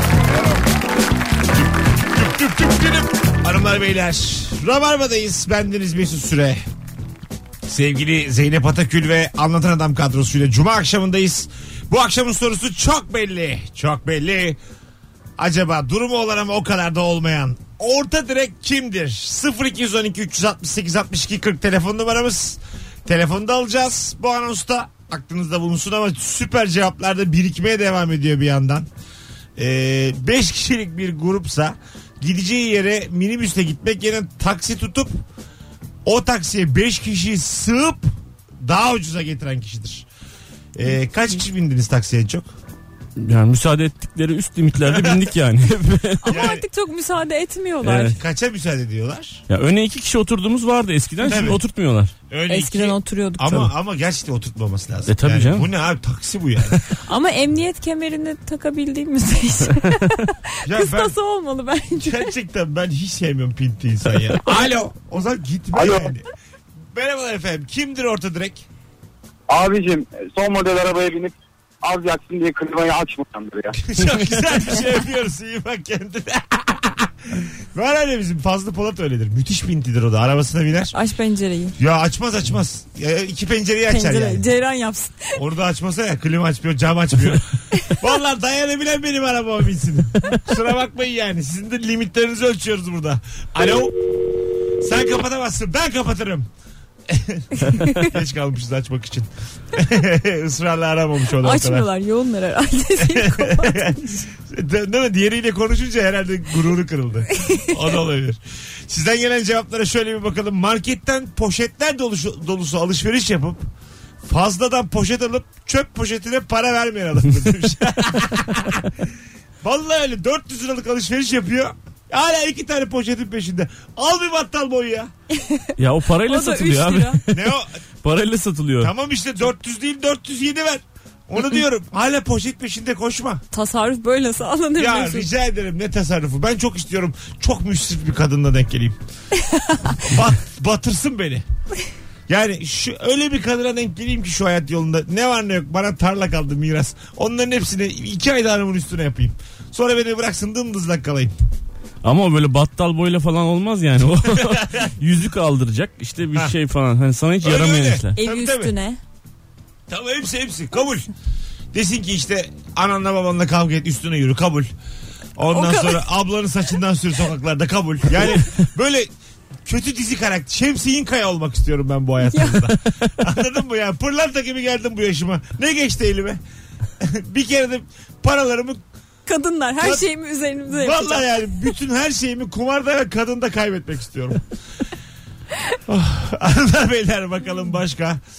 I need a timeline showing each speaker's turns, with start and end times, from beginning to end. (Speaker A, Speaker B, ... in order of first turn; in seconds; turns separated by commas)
Speaker A: 1.8-6.6, Speaker A: 7.7-14.6, Speaker A: 15.4-28.9, Speaker A: 29.6-35.1, Speaker A: 36.0-40.1, Speaker A: 40.8-42.5, Speaker B: 43.2-46.5, Speaker A: 44.9-45.2, Speaker C: 46.2-48.1, Speaker A: 46.3-46.6, Speaker B: 47.8-48.2, Speaker A: 48.1-49.4, Speaker B: 49.5-52.1, Speaker C: 51.2-51.6, Speaker A: 51.3-51.6, Speaker A: 52.3-56.8, Speaker C: 52.5-53.7, Speaker B: 55.1-55.7, Speaker C: 57.1-62.3, Speaker A: 60.6-61.1, Speaker A: 62.0-66.3, Speaker D: 65.7-66.1, Speaker A: 66.9-68.7, Speaker D: 69.5-73.8, Speaker A: 73.8-81.0, Speaker C: 80.9-81.8, Speaker A: 81.8-84.5, Speaker C: 83.9-85.4, Speaker A: 85.4-94.0, Speaker A: 94.8-96.5, Speaker A: 97.1-101.9, Speaker C: 97.7-98.1, Speaker C: 101.4-104.3, Speaker A: 103.0-113.7, Speaker C: 107.4-107.7, Speaker A: 114.2-125.1, Speaker C: 125.3-125.7, Speaker B: 125.8-128.9, Speaker C: 126.2-127.2, Speaker A: 127.3-127.8, Speaker A: 128.8-133.4, Speaker C: 133.5-135.3, Speaker A: 134.8-139.0, Speaker C: 139.4-140.0, Speaker A: 140.0-141.4, Speaker A: 142.3-151.3, Speaker B: 152.0-158.2, Speaker A: 154.2-154.9, Speaker A: 157.4-158.7, Speaker C: 158.2-159.0, Speaker A: 159.9-161.1, Speaker A: 161.7-164.7, Speaker A: 165.4-169.1, Speaker C: 165.5-166.1, Speaker A: 169.7-176.4, Speaker C: 172.2-172.8, Speaker A: 177.0-178.8, Speaker C: 179.3-181.6, Speaker A: 179.8-180.1, Speaker A: 180.7-184.4, Speaker A: 185.9-188.2